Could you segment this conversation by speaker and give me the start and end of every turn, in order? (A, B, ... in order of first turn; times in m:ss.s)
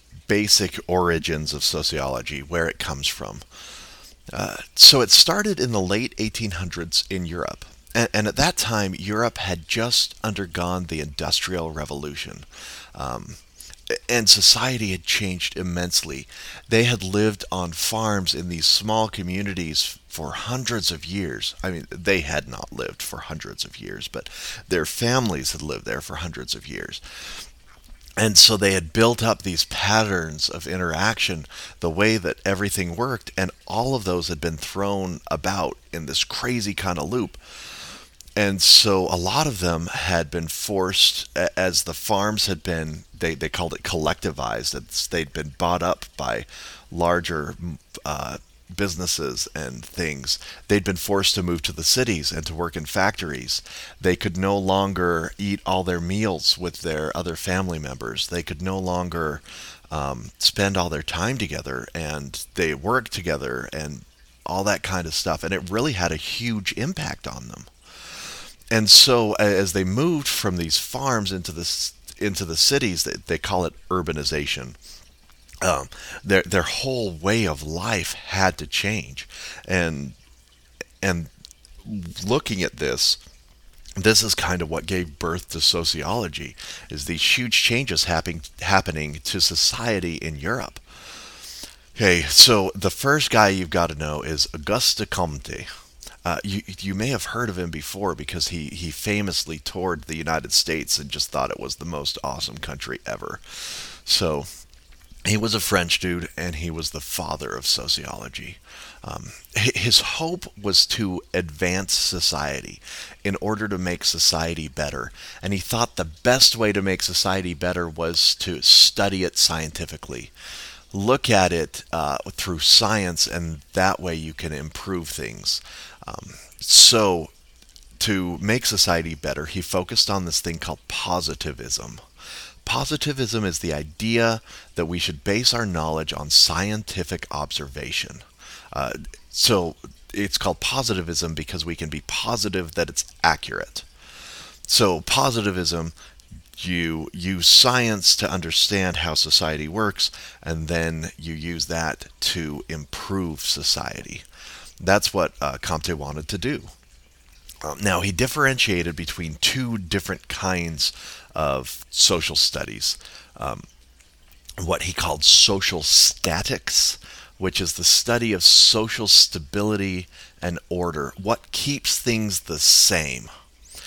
0:00.3-0:03.4 A
0:04.3-0:27.4 A
0:28.2-0:37.4 A
0:38.4-1:07.7 A
1:08.7-1:14.8 A
1:15.6-1:20.2 A
1:21.0-1:21.3 A
1:21.8-1:23.2 A
1:24.0-1:31.3 A
1:31.9-1:35.7 A
1:36.2-1:44.5 A
1:45.2-2:00.3 A
2:00.9-2:07.3 A
2:08.0-2:12.0 A
2:12.6-2:23.8 A
2:24.7-2:25.9 A
2:26.6-2:34.2 A
2:34.8-2:36.7 A
2:37.6-2:43.6 A
2:44.6-2:53.3 A